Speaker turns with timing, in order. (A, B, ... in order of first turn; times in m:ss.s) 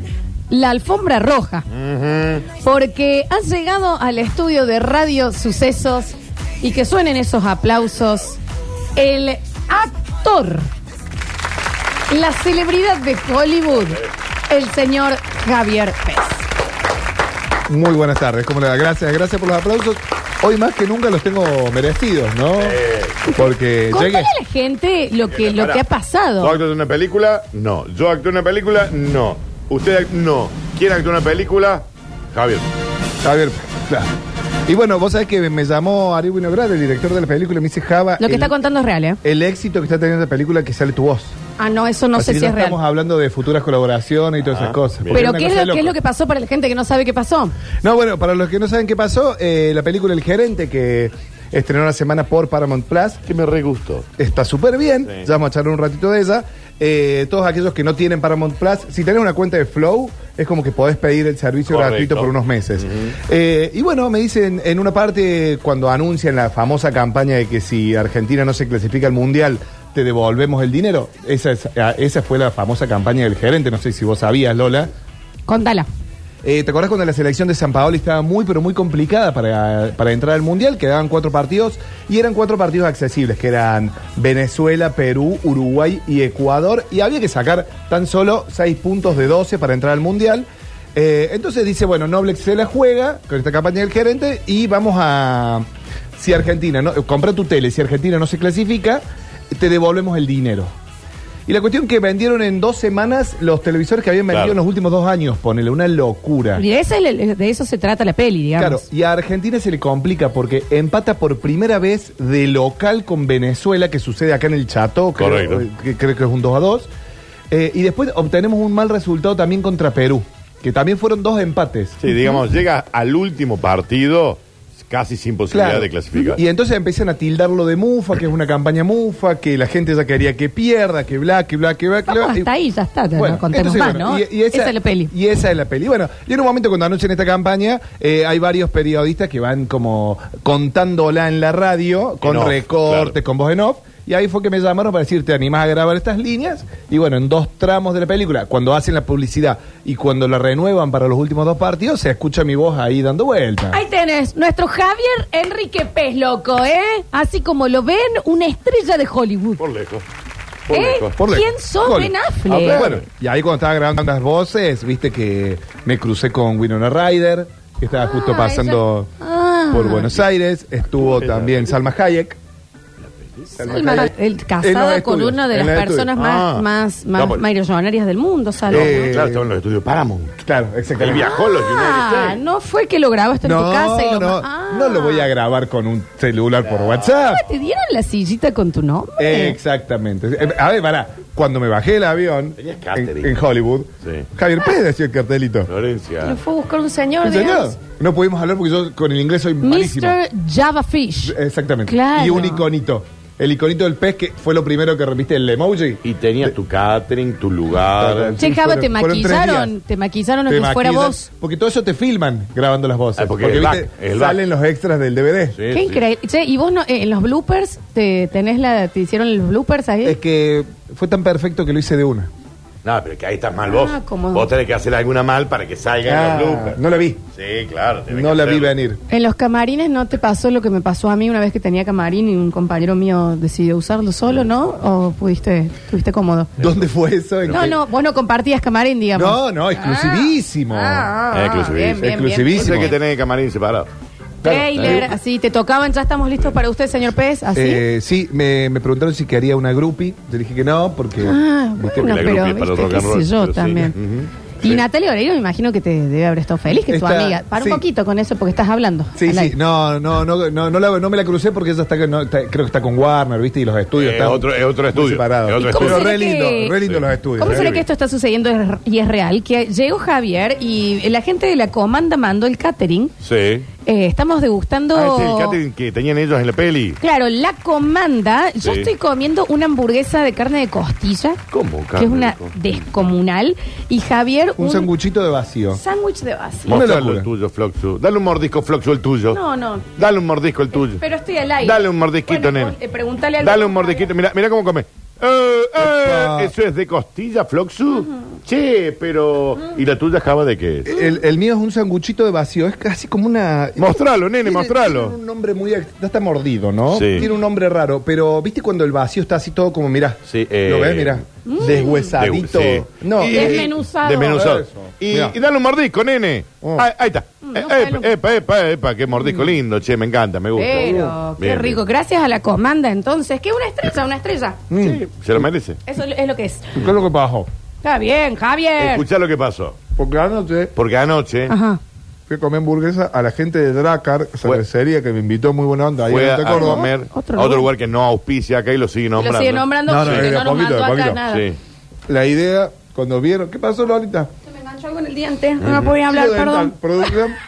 0:00.5-0:01.6 A
0:01.7-0:02.4 B
0:02.6-0:08.4 A
0:09.0-0:10.7 A
0:12.1-0:16.5 A
0:17.7-0:24.3 C
0:22.6-0:23.2 B
0:23.3-0:26.6 A
0:25.4-0:25.8 B
0:26.4-0:32.6 B
0:33.2-0:34.1 C
0:34.6-0:38.5 C
0:38.2-0:39.2 A
0:39.2-0:41.4 C
0:41.6-0:42.8 A
0:42.2-0:45.9 C
0:44.5-0:45.3 B
0:45.1-0:47.5 A
0:47.8-0:53.2 C
0:53.2-0:54.1 B
0:54.2-1:14.9 C
1:01.7-1:03.1 B
1:15.5-1:15.9 A
1:16.4-1:35.6 C
1:36.2-1:40.7 C
1:41.4-1:46.6 C
1:44.3-1:44.6 B
1:46.6-1:48.8 A
1:48.6-1:56.9 C
1:55.2-1:55.6 B
1:57.5-2:02.0 C
2:02.0-2:06.4 B
2:05.5-2:12.5 C
2:12.1-2:15.1 A
2:13.1-2:33.8 C
2:22.2-2:23.1 B
2:33.7-2:39.6 A
2:39.6-2:40.0 B
2:40.7-2:41.2 B
2:40.7-2:42.8 A
2:41.2-2:49.1 C
2:42.5-2:43.0 B
2:47.9-2:50.1 A
2:49.7-2:52.4 C
2:51.0-2:51.6 B
2:53.6-2:56.1 C
2:53.6-2:59.2 A
2:56.2-2:57.4 B
2:58.7-3:00.3 B
2:58.7-2:59.4 C
3:00.4-3:01.3 C
3:01.0-3:02.4 B
3:01.0-3:05.3 A
3:03.4-3:07.4 C
3:07.1-3:09.6 A
3:09.2-3:15.7 C
3:12.6-3:13.4 B
3:15.7-3:16.4 B
3:16.2-3:17.8 A
3:17.2-3:20.2 C
3:19.6-3:21.4 A
3:21.2-3:26.5 C
3:21.9-3:22.6 A
3:26.0-3:28.4 B
3:28.0-3:29.7 C
3:28.4-3:31.3 A
3:30.5-3:35.6 C
3:33.2-3:34.4 B
3:35.5-3:36.0 B
3:35.7-3:40.2 A
3:40.0-3:42.3 C
3:42.8-3:46.8 B
3:43.7-3:44.5 A
3:46.0-3:47.2 C
3:47.4-3:48.7 B
3:48.1-3:49.0 C
3:49.1-3:56.5 A
3:56.6-3:57.8 C
3:57.5-4:02.9 A
3:59.1-4:01.1 C
4:01.3-4:03.9 B
4:02.0-4:03.0 C
4:04.4-4:05.1 C
4:04.4-4:07.8 A
4:07.5-4:11.4 C
4:11.2-4:14.0 A
4:11.8-4:14.8 B
4:14.6-4:19.5 A
4:16.9-4:17.8 C
4:19.2-4:27.8 C
4:23.9-4:26.1 B
4:25.6-4:26.8 A
4:26.8-4:27.8 B
4:27.4-4:33.1 A
4:33.2-4:33.7 B
4:33.8-4:35.6 A
4:34.9-4:37.0 B
4:37.0-4:41.4 A
4:38.6-4:38.9 B
4:41.5-4:42.6 B
4:42.0-4:44.9 A
4:44.6-4:45.8 C
4:45.7-4:46.8 A
4:46.7-4:49.4 B
4:46.7-4:47.3 C
4:49.3-4:49.9 A
4:50.0-4:51.0 B
4:50.7-4:54.1 A
4:51.6-4:52.7 B
4:53.4-5:01.0 B
4:55.8-4:56.5 C
5:00.8-5:13.7 C
5:03.8-5:05.2 B
5:06.9-5:07.3 B
5:10.3-5:21.8 B
5:11.4-5:12.1 A
5:13.3-5:14.4 A
5:14.3-5:15.4 C
5:16.6-5:16.9 C
5:17.4-5:18.1 A
5:20.6-5:24.6 A
5:20.8-5:21.1 C
5:24.7-5:25.0 C
5:24.8-5:25.8 B
5:25.8-5:26.7 A
5:26.7-5:27.5 C
5:27.8-5:29.0 A
5:28.8-5:29.8 B
5:30.0-5:30.7 C
5:30.8-5:31.5 B
5:31.5-5:31.8 A
5:32.3-5:36.9 C
5:36.1-5:40.3 B
5:36.5-5:37.7 A
5:39.2-5:41.4 A
5:39.9-5:41.2 C
5:41.3-5:41.6 B
5:42.1-5:44.3 C
5:44.5-5:47.1 A
5:45.6-5:45.9 B
5:46.0-5:47.4 C